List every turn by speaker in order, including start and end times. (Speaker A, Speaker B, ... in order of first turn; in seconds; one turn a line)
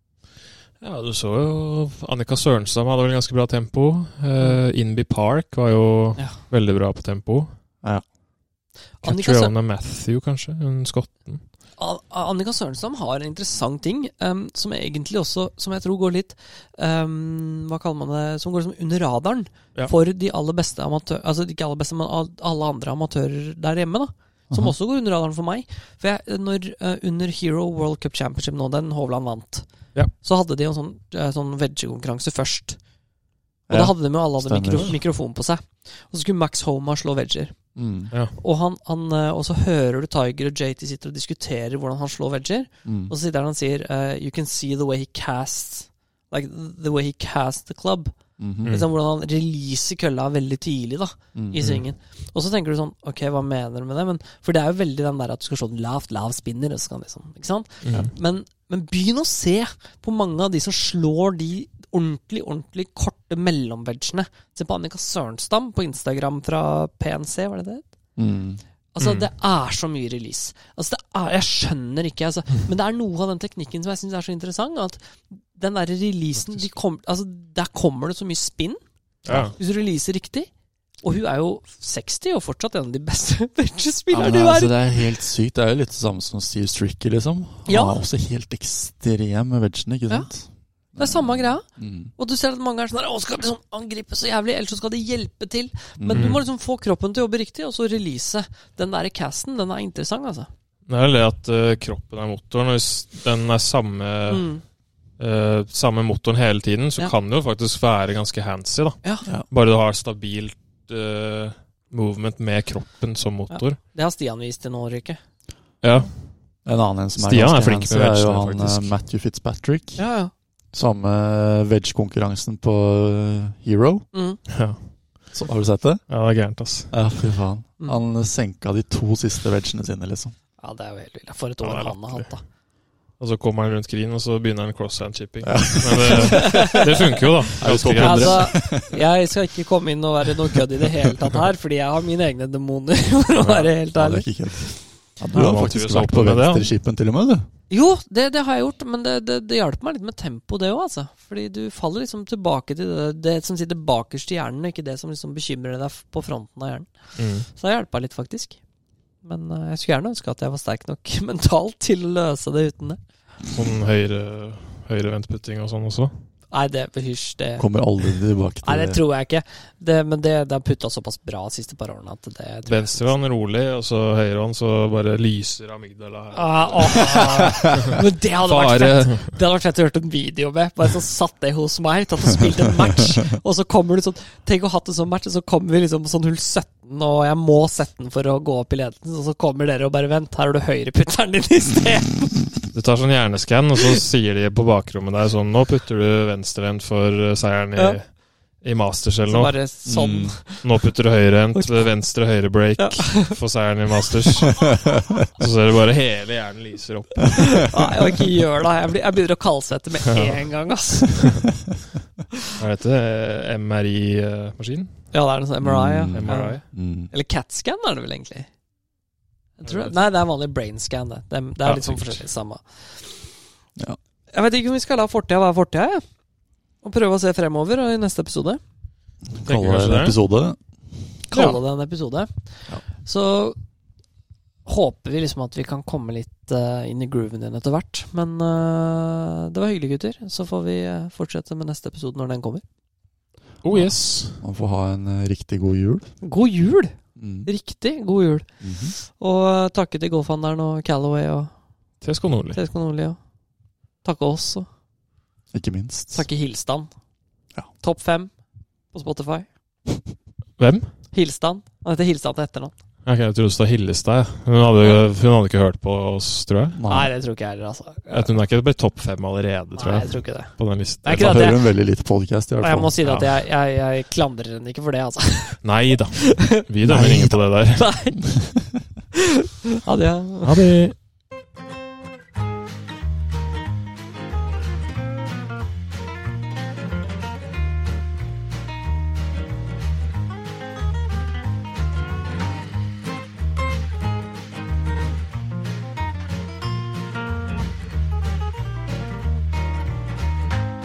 Speaker A: 0.8-7.5
Speaker B: 9.0-9.5
Speaker A: 9.0-11.4
Speaker B: 11.8-32.8
Speaker C: 24.5-24.8
Speaker C: 33.7-35.0
Speaker B: 33.7-37.6
Speaker C: 37.8-38.1
Speaker A: 38.1-38.4
Speaker B: 38.4-67.8
Speaker C: 42.9-43.1
Speaker C: 48.4-48.7
Speaker C: 51.4-51.7
Speaker A: 57.8-58.1
Speaker C: 68.2-68.6
Speaker B: 69.0-78.8
Speaker A: 69.0-69.3
Speaker A: 79.2-79.5
Speaker C: 79.3-79.5
Speaker B: 79.3-80.5
Speaker B: 81.0-84.9
Speaker C: 84.1-92.1
Speaker B: 87.7-88.0
Speaker B: 90.9-100.5
Speaker C: 96.0-96.4
Speaker A: 96.1-96.4
Speaker A: 100.9-104.5
Speaker B: 104.3-104.6
Speaker A: 105.2-113.8
Speaker B: 113.5-115.2
Speaker A: 115.8-116.1
Speaker C: 116.7-120.0
Speaker A: 117.2-119.0
Speaker B: 120.0-120.3
Speaker C: 120.7-124.1
Speaker B: 124.1-124.4
Speaker A: 124.5-124.8
Speaker C: 125.3-126.1
Speaker A: 126.1-127.0
Speaker C: 126.9-130.3
Speaker B: 130.6-132.4
Speaker A: 131.6-132.3
Speaker A: 133.2-138.6
Speaker C: 135.4-136.9
Speaker B: 136.1-137.2
Speaker C: 137.6-139.0
Speaker B: 138.0-144.8
Speaker A: 143.4-143.7
Speaker C: 143.9-147.5
Speaker A: 145.3-146.7
Speaker B: 147.7-158.6
Speaker A: 157.2-157.5
Speaker B: 159.2-163.0
Speaker A: 163.5-166.1
Speaker B: 166.5-167.7
Speaker C: 167.6-169.0
Speaker B: 168.6-173.1
Speaker A: 172.7-179.4
Speaker B: 176.3-192.5
Speaker C: 177.1-177.6
Speaker A: 192.7-199.6
Speaker B: 199.3-200.8
Speaker C: 199.8-200.4
Speaker A: 200.6-207.8
Speaker B: 201.5-201.9
Speaker B: 202.8-203.4
Speaker B: 207.3-211.4
Speaker A: 212.6-215.1
Speaker B: 215.1-218.5
Speaker C: 215.6-217.1
Speaker A: 216.1-216.6
Speaker B: 219.6-223.3
Speaker A: 219.7-219.9
Speaker A: 221.6-222.2
Speaker B: 224.3-226.0
Speaker B: 226.8-228.6
Speaker C: 229.3-230.6
Speaker A: 229.4-230.2
Speaker B: 231.3-233.6
Speaker A: 231.3-231.6
Speaker B: 234.7-242.6
Speaker A: 243.6-244.4
Speaker C: 243.7-246.1
Speaker B: 246.2-251.5
Speaker C: 247.2-247.5
Speaker C: 248.6-248.9
Speaker A: 252.0-252.6
Speaker B: 252.5-253.2
Speaker B: 254.0-254.7
Speaker C: 255.5-256.3
Speaker B: 256.1-256.9
Speaker B: 257.8-258.3
Speaker B: 258.9-259.5
Speaker A: 260.6-260.9
Speaker B: 261.1-262.7
Speaker A: 263.1-266.8
Speaker C: 266.8-267.1
Speaker B: 266.9-268.4
Speaker A: 268.1-271.4
Speaker B: 269.7-271.7
Speaker C: 271.1-273.0
Speaker B: 272.6-275.7
Speaker A: 273.0-273.3
Speaker A: 275.6-277.9
Speaker B: 276.2-276.6
Speaker C: 276.8-277.4
Speaker B: 277.7-278.5
Speaker B: 279.8-280.7
Speaker A: 280.4-281.0